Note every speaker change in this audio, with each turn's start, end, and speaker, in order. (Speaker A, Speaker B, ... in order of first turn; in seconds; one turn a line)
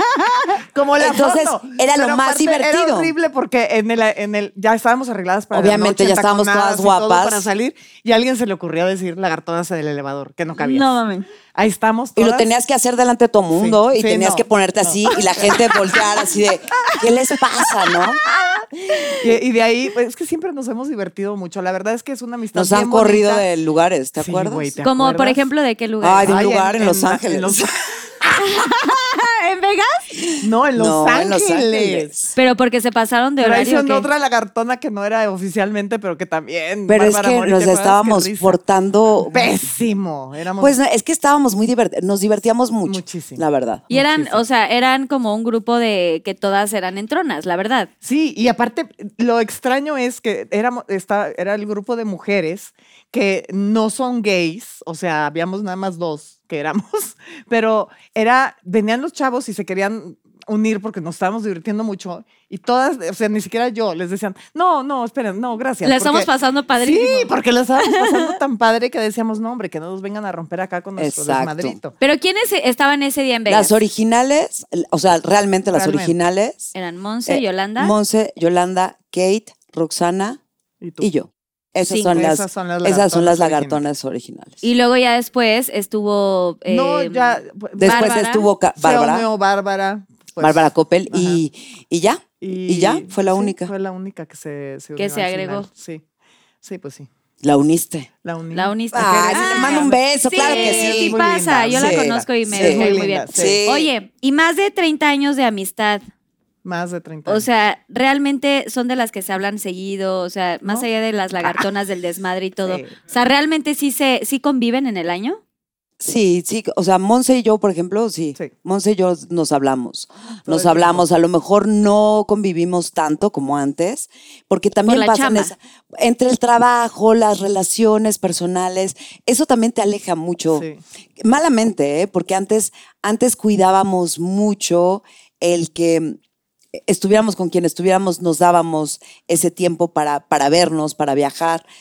Speaker A: 0.7-10.9
Speaker B: 1.0-3.1
Speaker B: 5.5-7.5
Speaker C: 10.6-11.3
Speaker A: 11.5-12.5
Speaker B: 12.2-18.2
Speaker A: 13.5-16.3
Speaker A: 17.9-23.4
Speaker B: 22.5-24.7
Speaker A: 24.2-25.4
Speaker C: 24.8-26.4
Speaker B: 26.0-27.7
Speaker A: 26.2-27.7
Speaker C: 28.3-30.1
Speaker B: 30.2-32.3
Speaker A: 30.4-32.3
Speaker C: 32.4-34.1
Speaker A: 33.4-38.6
Speaker B: 36.9-39.6
Speaker A: 39.2-40.8
Speaker B: 40.6-43.9
Speaker A: 42.8-44.4
Speaker C: 43.9-47.9
Speaker A: 48.0-71.9
Speaker C: 65.8-68.3
Speaker B: 71.0-71.8
Speaker C: 72.0-73.8
Speaker B: 73.5-76.7
Speaker A: 75.7-76.1
Speaker C: 76.7-77.9
Speaker B: 77.3-80.4
Speaker A: 80.8-81.1
Speaker B: 81.0-84.6
Speaker C: 81.9-82.2
Speaker A: 82.0-83.8
Speaker C: 84.6-88.5
Speaker A: 86.7-88.2
Speaker B: 87.8-89.3
Speaker A: 88.8-91.4
Speaker B: 90.4-93.7
Speaker A: 92.4-96.0
Speaker C: 95.0-95.7
Speaker A: 96.6-97.1
Speaker B: 97.4-98.1
Speaker A: 98.2-103.6
Speaker C: 98.5-106.0
Speaker B: 98.9-103.9
Speaker A: 106.6-107.5
Speaker C: 107.3-115.4
Speaker A: 112.6-112.9
Speaker B: 116.0-130.7
Speaker A: 120.5-121.0
Speaker C: 124.8-125.5
Speaker A: 130.5-130.8
Speaker B: 131.2-136.2
Speaker B: 136.8-141.6